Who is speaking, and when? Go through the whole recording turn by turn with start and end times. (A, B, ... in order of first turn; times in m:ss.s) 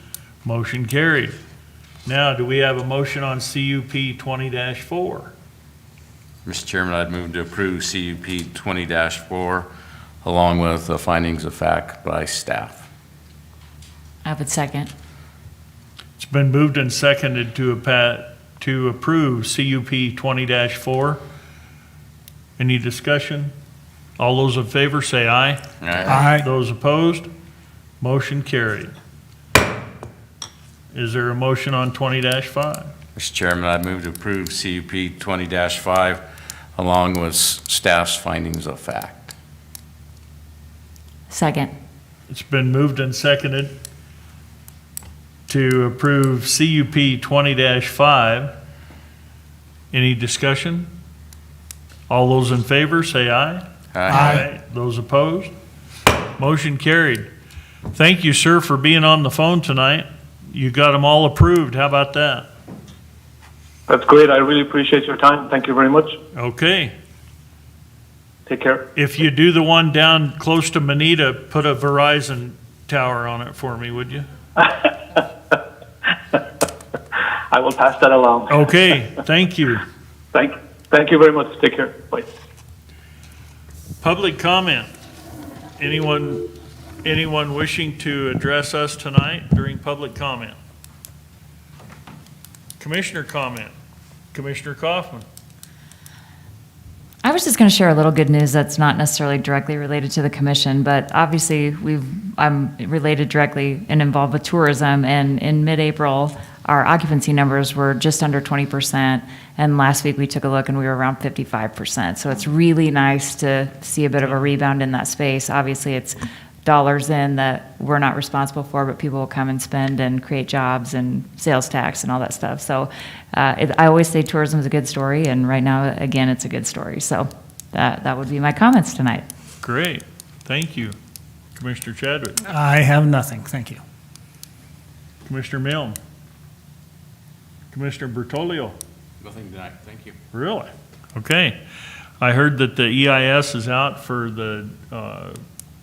0:00.4-0:01.3 A
0:02.0-0:05.3 A
0:06.4-0:09.7 B
0:10.2-0:12.9 B
0:14.2-0:14.9 C
0:16.2-0:21.2 A
0:22.6-0:23.5 A
0:24.2-0:27.3 A
0:25.8-0:26.2 B
0:26.1-0:26.4 D
0:28.0-0:28.9 A
0:30.9-0:32.9 A
0:33.1-0:36.2 B
0:36.8-0:39.3 B
0:41.3-0:41.7 C
0:42.3-0:43.7 A
0:45.5-0:48.5 A
0:49.9-0:50.9 A
0:52.1-0:55.5 A
0:53.9-0:54.4 B
0:54.1-0:54.4 D
0:56.4-0:57.3 A
0:57.9-1:02.5 A
1:03.9-1:06.1 E
1:06.3-1:06.9 A
1:08.5-1:08.8 E
1:08.9-1:14.2 A
1:14.6-1:15.2 E
1:17.5-1:18.7 E
1:18.5-1:19.8 A
1:20.3-1:22.2 E
1:24.0-1:24.9 A
1:25.8-1:26.4 A
1:27.0-1:30.6 A
1:32.8-1:33.7 A
1:34.3-1:35.2 A
1:37.2-2:09.2 C
2:09.6-2:11.0 A
2:11.5-2:12.4 A
2:12.4-2:13.8 D
2:15.2-2:16.0 A
2:17.7-2:18.7 A
2:19.2-2:20.2 B
2:20.3-2:21.6 A
2:22.2-2:25.4 A